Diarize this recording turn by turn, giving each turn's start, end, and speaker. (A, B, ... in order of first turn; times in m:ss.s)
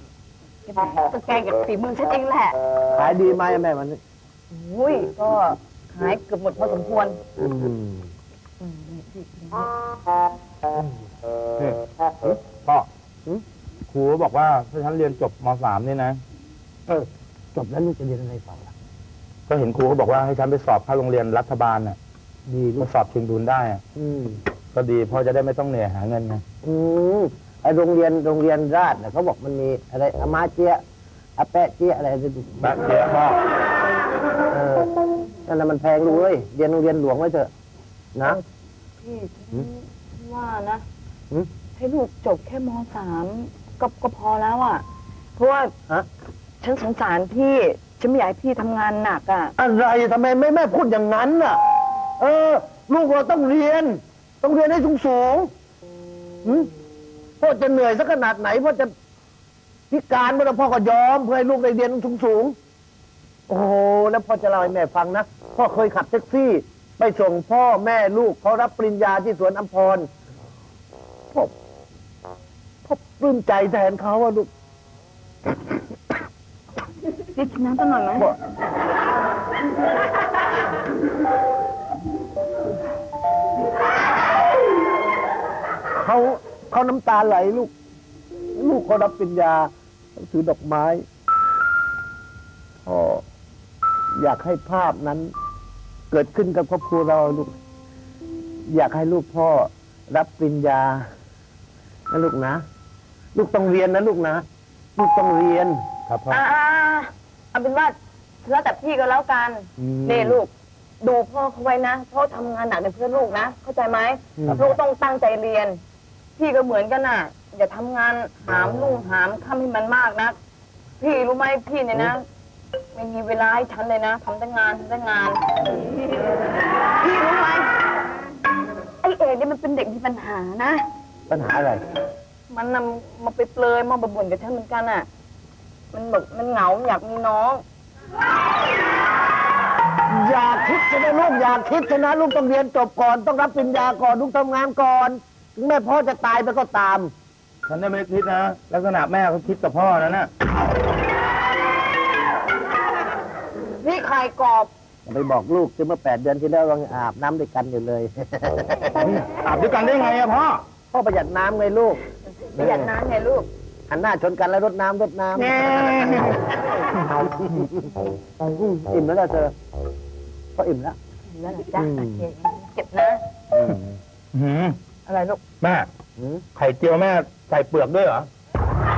0:00.7-0:02.6 A
0:02.9-0:04.0 B
0:04.5-0:07.2 A
0:07.4-0:08.1 B
0:08.6-0:09.7 A
0:13.9-0:16.2 C
0:16.9-0:18.7 B
0:19.5-0:22.0 C
0:22.5-0:22.9 B
0:22.7-0:23.8 C
0:24.0-0:24.4 B
0:24.7-0:26.4 C
0:26.6-0:30.8 B
0:31.4-0:32.7 B
0:32.6-0:33.4 C
0:34.5-0:34.9 B
0:35.4-0:37.5 B
0:38.1-0:38.4 B
0:39.0-0:40.8 A
0:41.8-0:44.8 A
0:45.4-0:45.7 A
0:46.6-0:49.5 A
0:49.6-0:51.6 B
0:52.2-0:55.5 B
0:57.4-0:58.9 B
0:59.9-1:02.6 B
1:03.5-1:10.1 B
1:12.8-1:14.5 B
1:17.3-1:18.3 A
1:26.0-1:27.7 B
1:28.5-1:31.0 B
1:32.8-1:33.2 B
1:34.1-1:35.3 B
1:36.1-1:37.5 B
1:38.7-1:41.1 B
1:42.1-1:42.6 B
1:43.3-1:44.4 B
1:45.0-1:45.8 B
1:46.1-1:46.4 C
1:46.3-1:50.5 A
1:49.8-1:50.4 C
1:51.0-1:55.8 A
1:56.4-2:00.4 A
2:01.0-2:02.2 A
2:02.9-2:06.2 A
2:07.0-2:07.7 A
2:09.0-2:10.8 A
2:11.3-2:11.8 B
2:12.5-2:15.0 A
2:15.9-2:17.6 A
2:20.1-2:27.1 B
2:27.7-2:30.3 C
2:33.8-2:34.7 A
2:35.0-2:39.1 B
2:39.3-2:40.6 C
2:40.9-2:42.0 B
2:42.5-2:42.9 B
2:42.6-2:43.5 A
2:43.9-2:46.2 B
2:45.5-2:46.2 C
2:47.2-2:47.8 B
2:48.4-2:49.5 B
2:50.6-2:51.0 B
2:51.3-2:53.2 A
2:51.8-2:52.3 B
2:53.5-2:53.9 B
2:54.3-2:54.8 C
2:55.0-2:55.4 A
2:55.6-2:55.9 C
2:56.2-2:56.4 B
2:56.5-2:58.3 C